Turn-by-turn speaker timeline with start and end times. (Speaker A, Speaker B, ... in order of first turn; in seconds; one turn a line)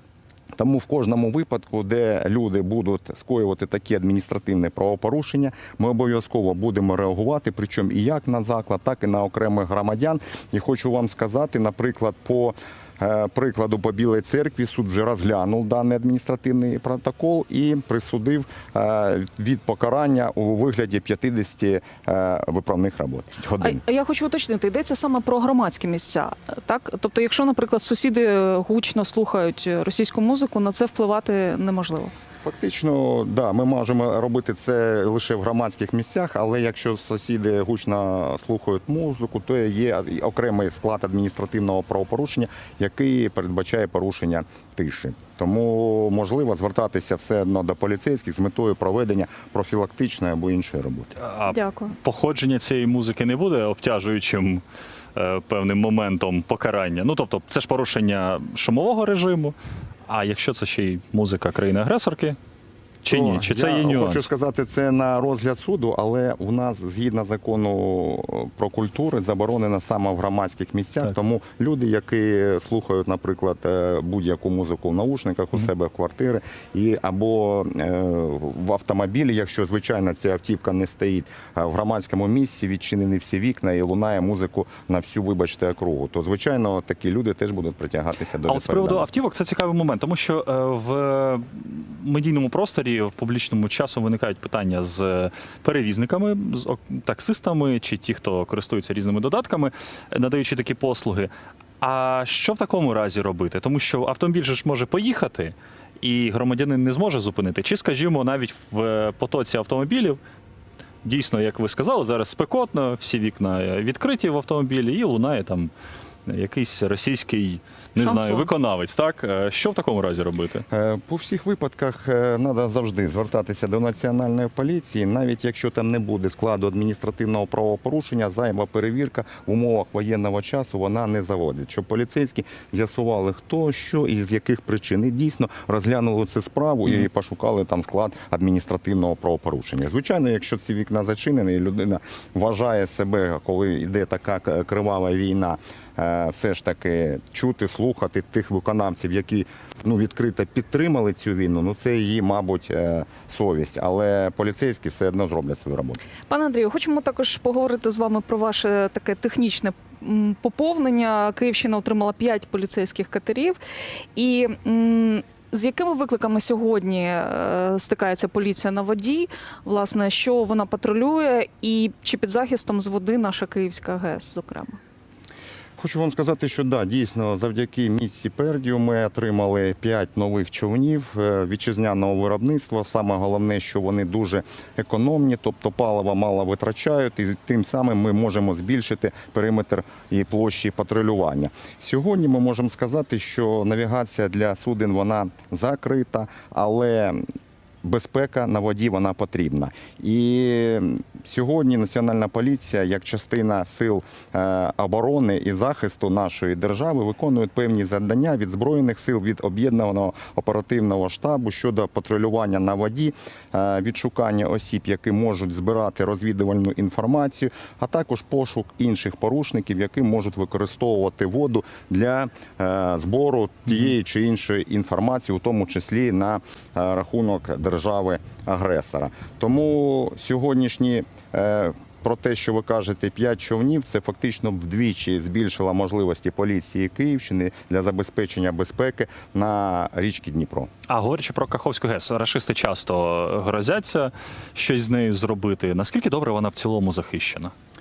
Speaker A: 0.6-23.8
Speaker B: 23.6-32.1
Speaker A: 32.4-51.1
Speaker C: 51.2-54.6
Speaker B: 51.5-51.9
Speaker C: 55.1-59.5
Speaker C: 60.1-62.4
Speaker C: 63.0-64.3
Speaker A: 63.1-89.1
Speaker C: 88.5-110.2
Speaker C: 111.0-115.7
Speaker C: 116.2-120.6
Speaker B: 118.0-118.5
Speaker A: 120.7-156.0
Speaker B: 156.3-163.6
Speaker B: 164.1-174.8
Speaker A: 175.8-197.2
Speaker A: 197.8-240.7
Speaker C: 240.9-247.5